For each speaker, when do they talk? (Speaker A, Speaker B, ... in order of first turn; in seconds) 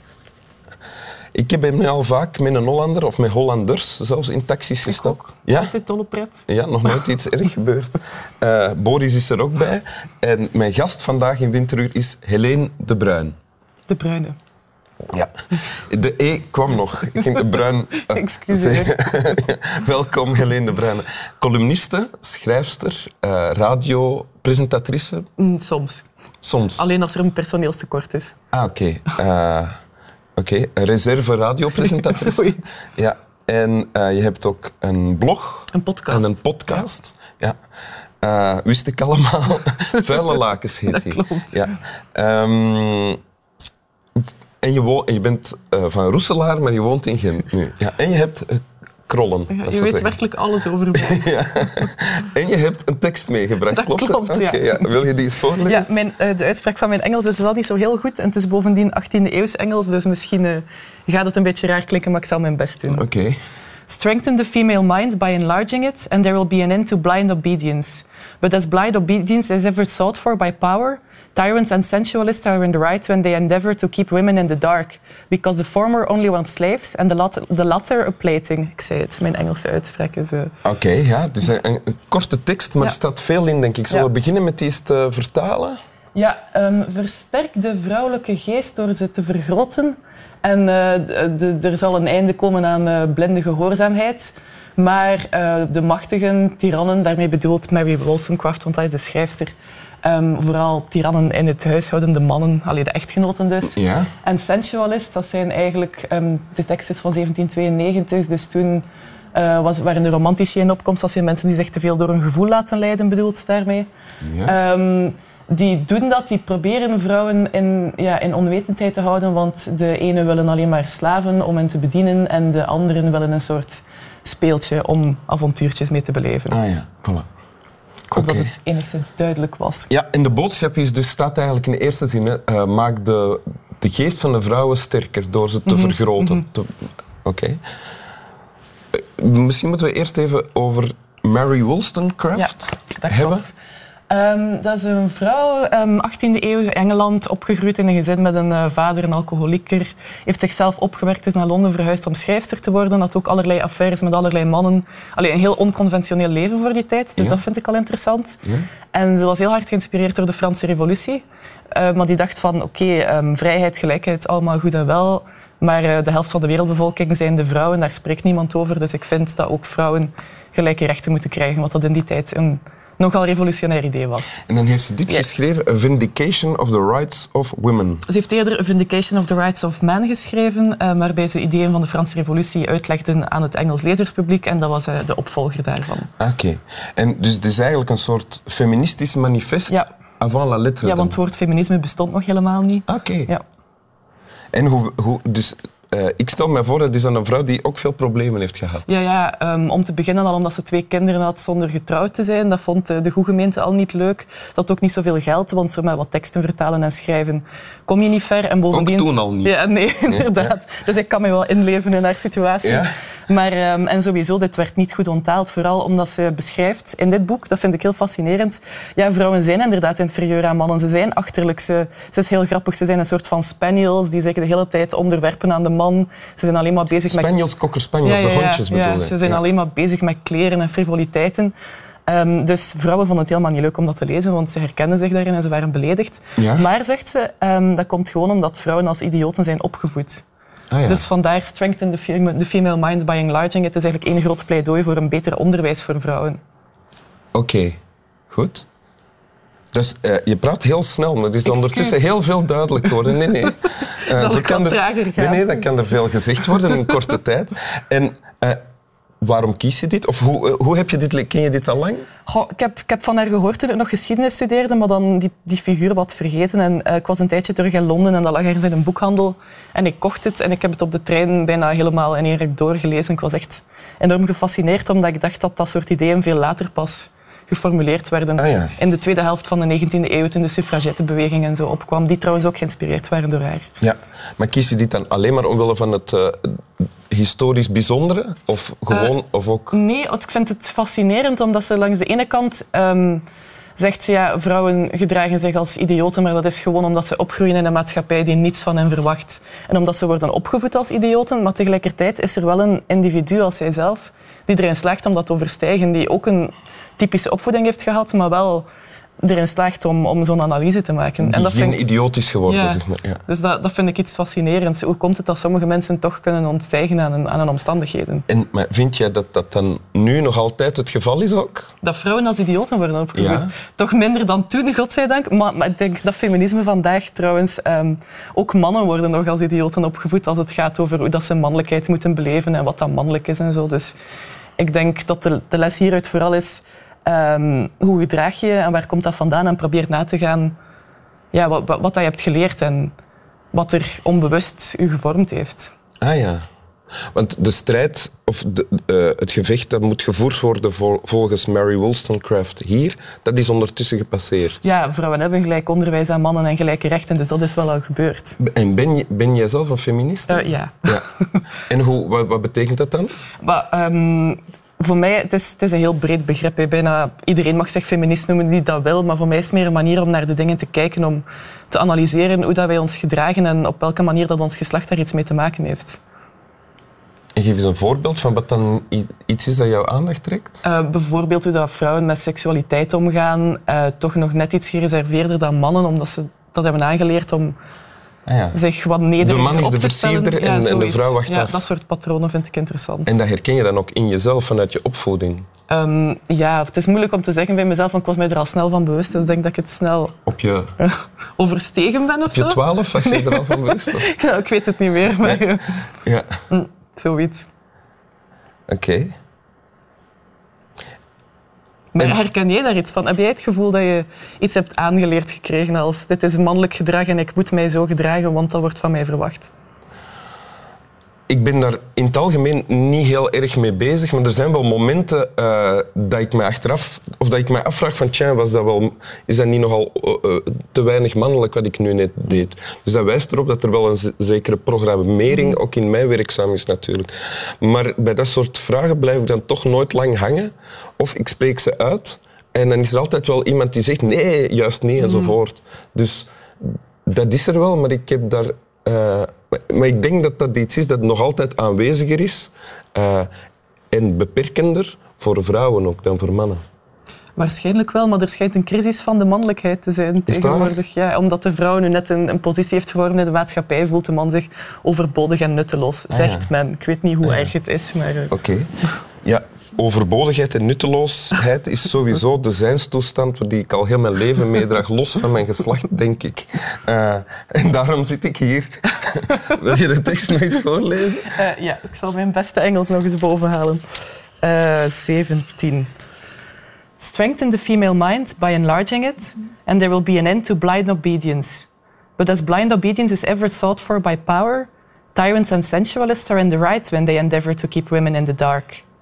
Speaker A: 1.3-5.7, 6.5-13.3, 15.9-25.3, 26.4-26.9, 28.5-29.7, 30.4-37.6, 38.2-43.2, 44.6-50.2, 51.0-55.9, 62.9-63.4, 80.6-85.8, 103.7-104.1, 114.2-114.6, 126.5-127.3, 128.1-128.5, 129.9-136.7, 137.2-137.6, 138.9-143.4, 174.4-178.1, 186.2-191.2, 192.9-193.3, 194.5-198.9, 208.7-210.4, 212.6-212.9, 227.1-229.4, 236.4-236.7, 240.7-241.0, 247.3-247.8, 248.3-248.7, 249.7-258.6, 259.2-262.1, 278.4-278.8, 283.8-289.8, 311.2-313.2, 318.3-321.7, 323.1-323.5, 346.0-346.4, 347.1-354.6, 358.4-361.1, 361.7-363.1, 377.4-380.6, 388.3-388.6, 389.2-391.6, 393.1-395.4, 400.3-400.7, 402.3-404.1, 408.7-409.1, 421.3-453.3, 453.9-456.6, 460.3-460.8, 466.1-466.5, 468.3-468.7, 469.2-481.4
Speaker B: 4.9-6.5, 13.9-14.4, 18.1-19.0, 25.4-26.1, 26.8-28.4, 31.9-32.8, 35.7-36.4, 40.9-41.7, 49.5-51.3, 53.7-54.9, 55.6-63.0, 63.9-80.5, 86.2-113.9, 114.5-126.6, 128.1-129.9, 135.7-136.4, 142.3-143.5, 144.1-174.4, 178.1-186.1, 190.8-193.4, 198.9-227.3, 228.0-231.5, 232.1-240.2, 240.9-246.4, 251.4-252.1, 254.1-255.6, 262.3-283.7, 288.9-289.1, 289.7-293.2, 293.8-308.7, 309.2-311.8, 312.5-318.3, 321.8-333.9, 334.6-340.5, 341.3-342.9, 343.5-345.7, 354.6-358.4, 360.3-361.0, 363.4-376.0, 380.6-387.6, 388.5-393.2, 395.7-400.2, 400.8-405.8, 406.5-407.5, 411.9-419.5, 445.0-445.3, 457.4-468.3, 481.3-483.8, 484.4-485.9, 487.0-498.8